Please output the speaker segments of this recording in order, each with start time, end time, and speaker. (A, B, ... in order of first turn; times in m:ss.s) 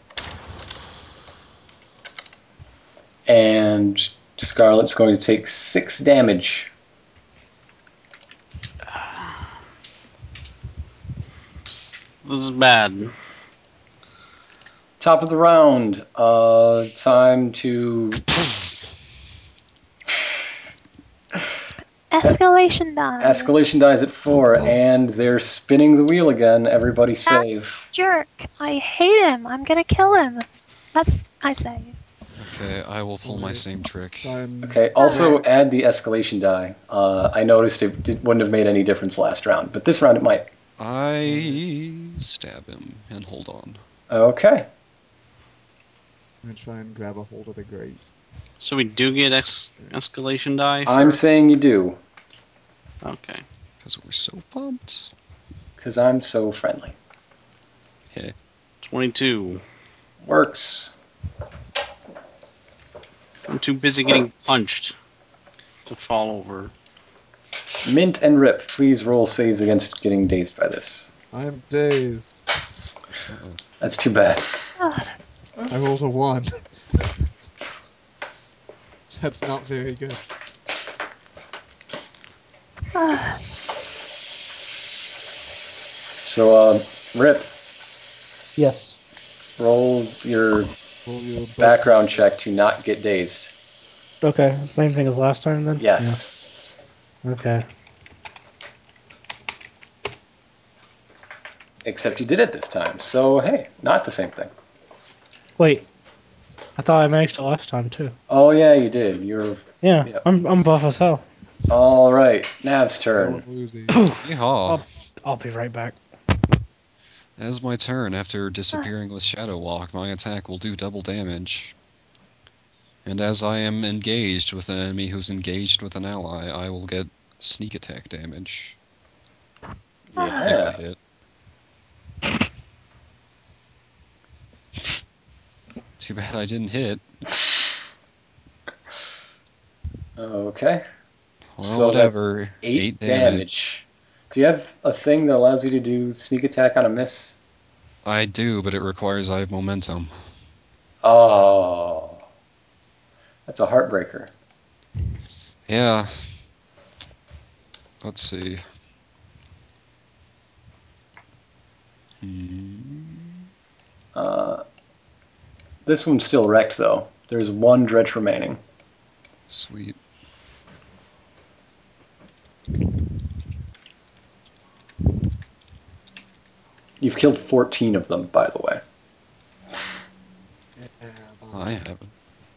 0:03.3-0:06.7 A
0:08.9-0:09.4 B
0:11.6-0:13.1 B
0:15.0-0:18.3 A
0:22.1-0:23.5 C
0:23.2-0:27.9 A
0:24.3-0:24.8 D
0:27.3-0:32.0 C
0:32.4-0:34.3 E
0:33.2-0:33.7 D
0:34.2-0:35.4 D
0:34.6-0:40.5 A
0:35.0-0:35.4 C
0:40.8-0:43.8 E
0:41.2-0:41.6 D
0:44.1-0:44.7 A
0:46.4-0:48.0 D
0:48.6-0:51.2 B
0:50.9-0:52.0 A
0:53.0-0:53.4 B
0:53.8-0:55.1 E
0:55.8-0:57.0 A
0:58.8-0:59.6 B
1:00.2-1:00.9 A
1:03.5-1:04.9 B
1:05.9-1:06.7 B
1:07.8-1:11.1 A
1:11.3-1:12.4 D
1:13.3-1:13.6 E
1:13.8-1:14.6 A
1:14.8-1:15.2 C
1:15.7-1:17.3 D
1:19.1-1:20.2 D
1:23.0-1:23.4 C
1:26.3-1:27.5 A
1:28.6-1:29.0 F
1:29.6-1:30.7 A
1:31.1-1:32.1 D
1:31.6-1:33.5 A
1:34.2-1:36.2 F
1:35.8-1:36.3 A
1:37.2-1:37.6 F
1:41.8-1:44.5 A
1:45.6-1:45.9 F
1:46.8-1:48.2 F
1:48.3-1:50.2 A
1:49.8-1:51.2 F
1:51.7-1:53.4 A
1:53.2-1:54.0 D
1:53.9-1:56.0 F
1:54.2-1:54.8 E
1:57.4-2:01.8 E
2:03.0-2:08.8 E
2:10.2-2:10.8 A
2:10.2-2:10.5 C
2:10.4-2:11.0 E
2:16.0-2:17.0 E
2:20.2-2:20.8 A
2:21.6-2:23.6 E
2:21.6-2:27.4 A
2:28.0-2:30.2 E
2:31.0-2:32.2 A
2:33.5-2:34.3 A
2:35.7-2:36.4 E
2:38.0-2:38.6 E
2:42.2-2:43.4 E
2:44.2-2:44.6 A
2:45.8-2:48.6 A
2:49.5-2:50.0 E
2:57.0-2:58.8 A
3:00.8-3:01.8 D
3:01.5-3:02.1 E